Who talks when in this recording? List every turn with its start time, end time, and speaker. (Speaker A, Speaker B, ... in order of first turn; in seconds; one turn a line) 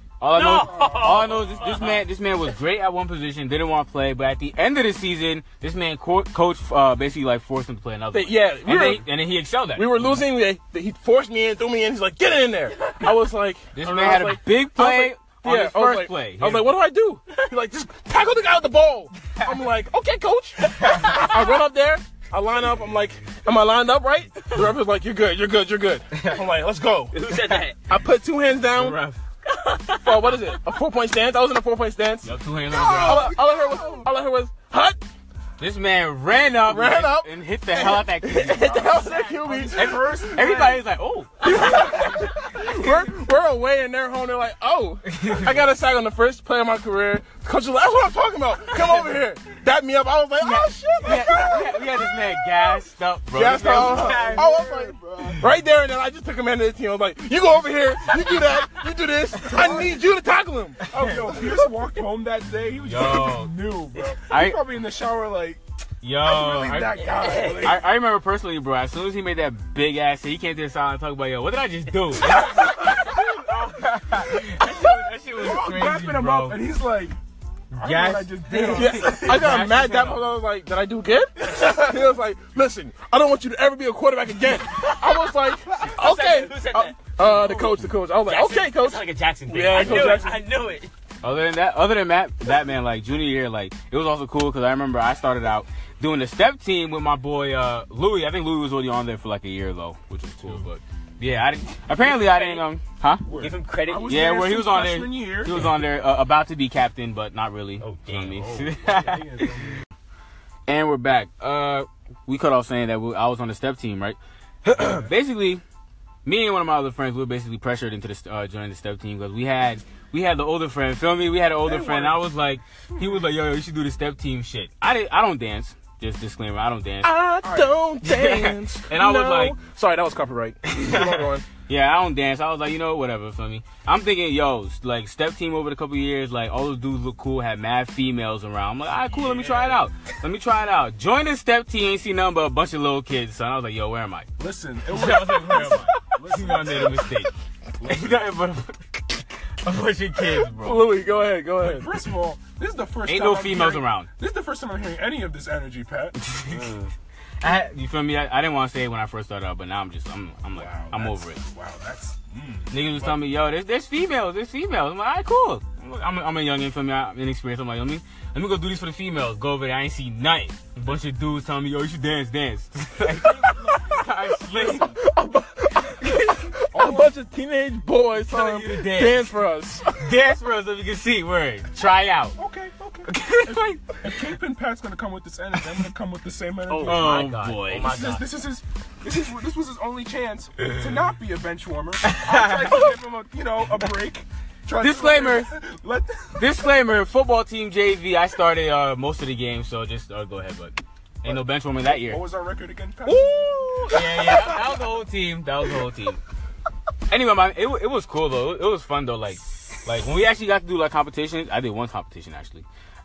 Speaker A: 0.2-10.2
Speaker B: 0.3-2.0
Speaker C: 0.5-1.4
Speaker D: 8.1-9.1
Speaker D: 9.8-27.2
Speaker A: 13.8-16.7
Speaker A: 20.8-21.1
Speaker B: 20.9-21.4
Speaker B: 27.1-27.8
Speaker D: 27.9-29.0
Speaker A: 28.7-29.2
Speaker B: 29.5-30.6
Speaker D: 30.0-32.3
Speaker A: 32.2-33.4
Speaker C: 32.7-34.1
Speaker D: 32.8-35.0
Speaker A: 35.6-39.1
Speaker D: 36.6-40.2
Speaker C: 38.8-40.8
Speaker A: 39.8-42.4
Speaker D: 41.4-51.9
Speaker A: 45.1-45.7
Speaker A: 50.4-54.5
Speaker C: 51.2-51.8
Speaker D: 53.3-61.0
Speaker C: 53.6-55.5
Speaker C: 59.4-60.0
Speaker A: 60.9-61.4
Speaker C: 60.9-65.6
Speaker A: 62.8-63.5
Speaker A: 64.3-64.6
Speaker A: 66.0-76.6
Speaker C: 66.2-67.9
Speaker B: 67.0-67.7
Speaker C: 75.3-77.2
Speaker A: 77.7-80.2
Speaker C: 77.8-80.1
Speaker D: 78.7-90.4
Speaker B: 78.9-79.1
Speaker B: 85.8-87.0
Speaker C: 87.2-87.9
Speaker B: 88.3-90.9
Speaker A: 89.8-90.1
Speaker C: 89.9-90.2
Speaker A: 91.2-103.3
Speaker B: 102.0-102.6
Speaker C: 103.3-105.7
Speaker B: 103.3-104.3
Speaker A: 104.1-109.4
Speaker B: 107.8-108.5
Speaker C: 108.2-109.8
Speaker A: 110.7-115.6
Speaker C: 114.7-115.1
Speaker A: 116.2-127.1
Speaker D: 121.7-122.2
Speaker D: 127.0-131.4
Speaker C: 127.4-127.8
Speaker A: 128.0-129.6
Speaker A: 130.7-144.3
Speaker C: 139.1-139.8
Speaker C: 144.4-147.1
Speaker A: 144.9-147.3
Speaker C: 147.8-148.3
Speaker A: 147.8-148.9
Speaker A: 149.6-150.9
Speaker D: 150.6-151.9
Speaker C: 151.6-156.2
Speaker A: 153.1-154.1
Speaker A: 156.3-156.7
Speaker B: 156.5-156.8
Speaker A: 157.4-161.4
Speaker C: 160.6-163.2
Speaker A: 162.7-175.0
Speaker C: 173.4-173.9
Speaker D: 174.7-180.2
Speaker C: 176.7-177.1
Speaker A: 178.2-179.3
Speaker A: 179.9-182.4
Speaker C: 182.4-183.1
Speaker A: 183.1-183.7
Speaker D: 183.5-183.8
Speaker C: 184.0-196.5
Speaker B: 186.7-188.3
Speaker A: 186.8-187.9
Speaker A: 192.0-192.9
Speaker A: 194.8-195.5
Speaker A: 196.4-202.2
Speaker C: 201.2-204.7
Speaker B: 203.1-204.3
Speaker A: 203.9-206.2
Speaker A: 207.1-212.7